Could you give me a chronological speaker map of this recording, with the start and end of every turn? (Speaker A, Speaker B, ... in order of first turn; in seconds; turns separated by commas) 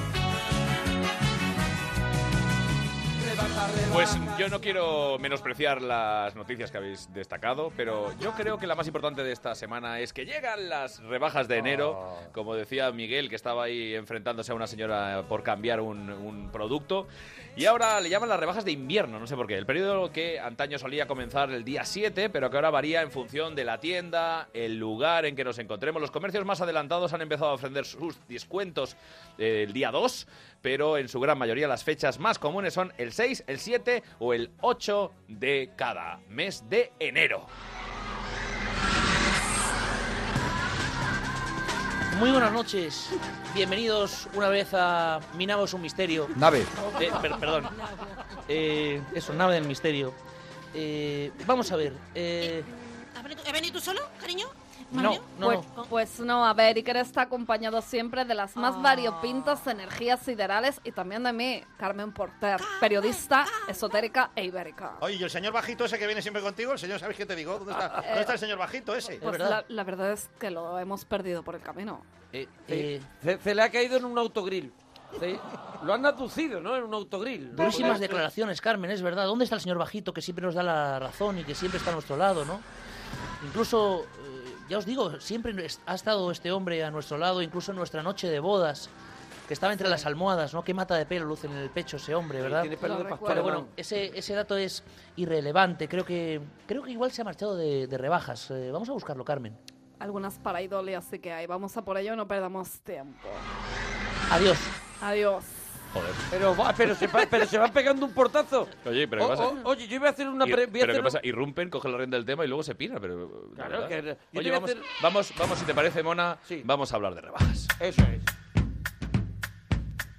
Speaker A: 3.2-4.2, Speaker B: 3.9-37.5, Speaker C: 11.5-12.3, Speaker D: 42.1-46.3, Speaker B: 47.0-47.7, Speaker D: 47.2-47.6, Speaker E: 47.7-48.2, Speaker D: 48.5-50.1, Speaker D: 50.7-52.7, Speaker E: 52.4-55.9, Speaker D: 54.9-55.6, Speaker F: 55.4-65.0, Speaker E: 58.6-59.6, Speaker E: 62.6-63.8, Speaker C: 65.0-69.2, Speaker F: 68.0-68.3, Speaker F: 69.2-72.0, Speaker D: 69.2-69.6, Speaker D: 72.3-73.0, Speaker A: 72.7-78.2, Speaker D: 77.5-82.6, Speaker D: 83.4-88.9, Speaker D: 89.5-99.6, Speaker A: 92.4-93.7, Speaker F: 92.8-93.6, Speaker F: 100.0-103.4, Speaker D: 104.3-104.7, Speaker F: 105.0-105.6, Speaker B: 105.9-106.2, Speaker A: 106.3-111.2, Speaker B: 108.8-109.6, Speaker B: 110.4-117.7, Speaker A: 113.6-114.8, Speaker A: 117.8-118.3